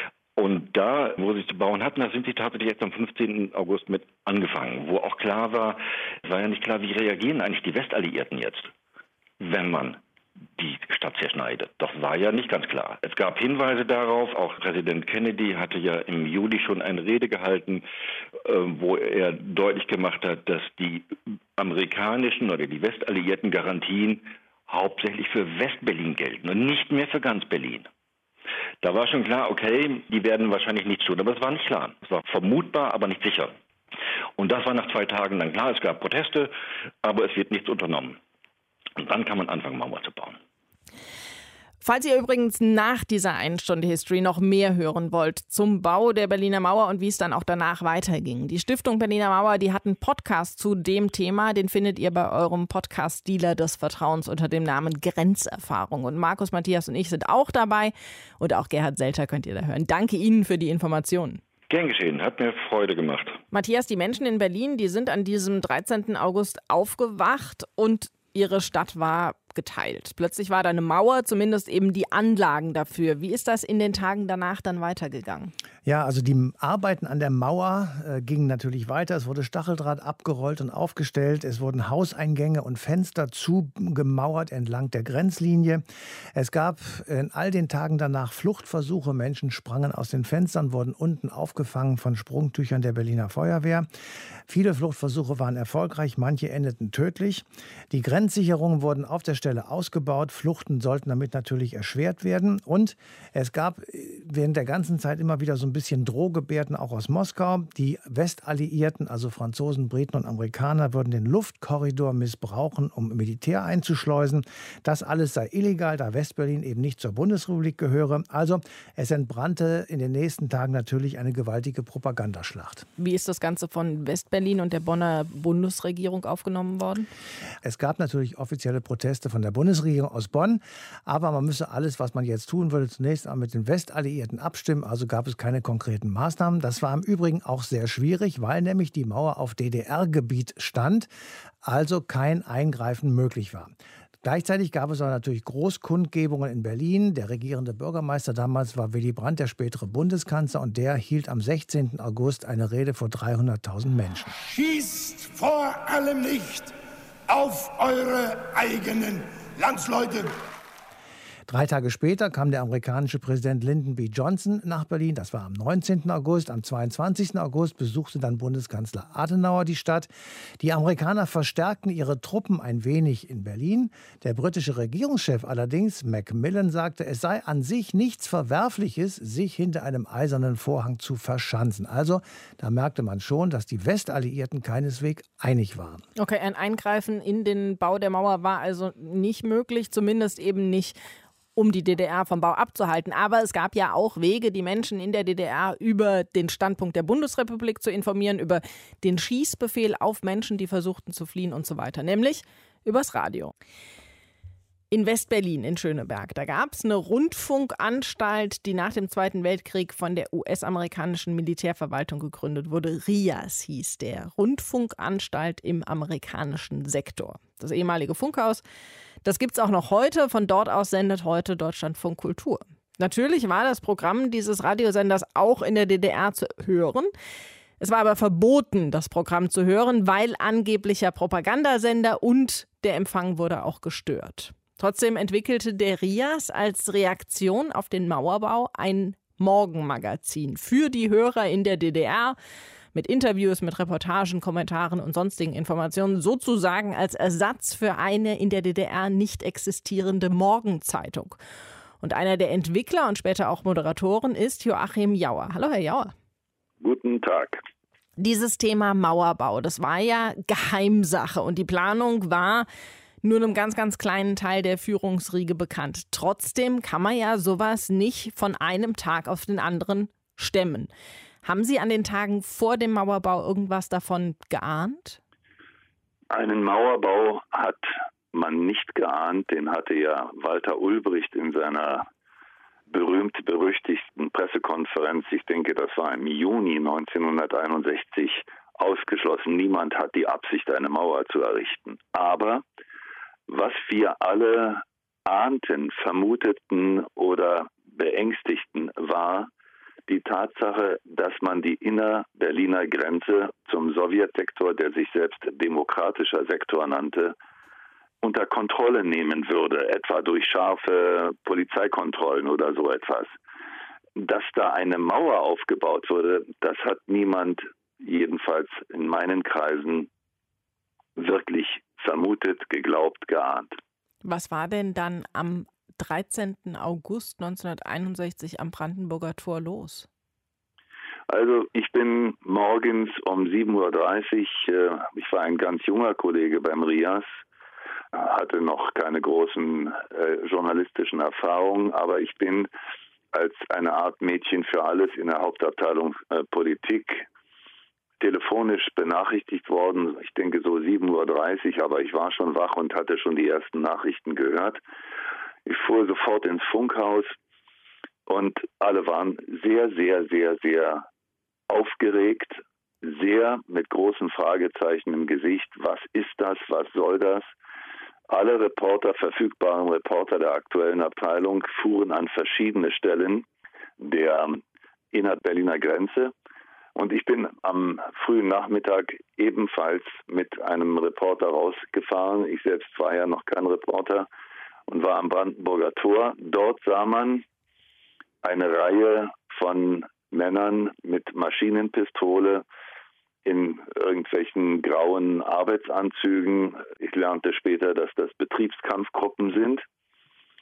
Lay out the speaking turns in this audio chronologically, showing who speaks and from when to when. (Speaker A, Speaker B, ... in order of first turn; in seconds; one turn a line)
Speaker A: 0.4-8.7
Speaker A: 9.4-10.0
Speaker A: 10.6-17.8
Speaker A: 18.4-27.9
Speaker A: 28.8-33.5
Speaker A: 34.4-36.5
Speaker A: 37.0-38.2
Speaker A: 39.0-40.4
Speaker B: 41.8-61.4
Speaker A: 61.7-63.4
Speaker B: 63.5-75.5
Speaker C: 75.8-93.9
Speaker C: 94.5-122.9
Speaker B: 123.0-127.1
Speaker C: 127.6-141.1
Speaker C: 141.6-154.3
Speaker D: 154.4-156.7
Speaker D: 157.3-160.3
Speaker C: 161.5-170.1
Speaker C: 170.6-186.0
Speaker B: 186.2-191.0
Speaker B: 191.6-203.5
Speaker B: 204.9-218.6
Speaker B: 219.2-227.1
Speaker B: 227.8-242.4
Speaker B: 242.9-251.4
Speaker B: 252.0-256.1
Speaker E: 256.8-257.6
Speaker B: 258.2-262.7
Speaker B: 263.2-270.9
Speaker B: 271.4-275.2
Speaker E: 276.3-282.1
Speaker E: 282.9-292.6
Speaker E: 293.5-299.5
Speaker E: 300.1-307.4
Speaker E: 308.2-313.4
Speaker E: 314.2-320.1
Speaker E: 321.2-323.7
Speaker B: 324.2-330.1
Speaker E: 331.3-337.3
Speaker E: 338.1-342.7
Speaker E: 343.3-347.3
Speaker E: 348.2-354.8
Speaker E: 355.7-357.4
Speaker E: 358.3-361.1
Speaker E: 361.7-367.5
Speaker E: 368.3-373.4
Speaker E: 374.0-374.6
Speaker E: 375.1-376.3
Speaker E: 377.0-384.3
Speaker E: 384.9-387.4
Speaker E: 388.4-392.6
Speaker E: 393.4-399.9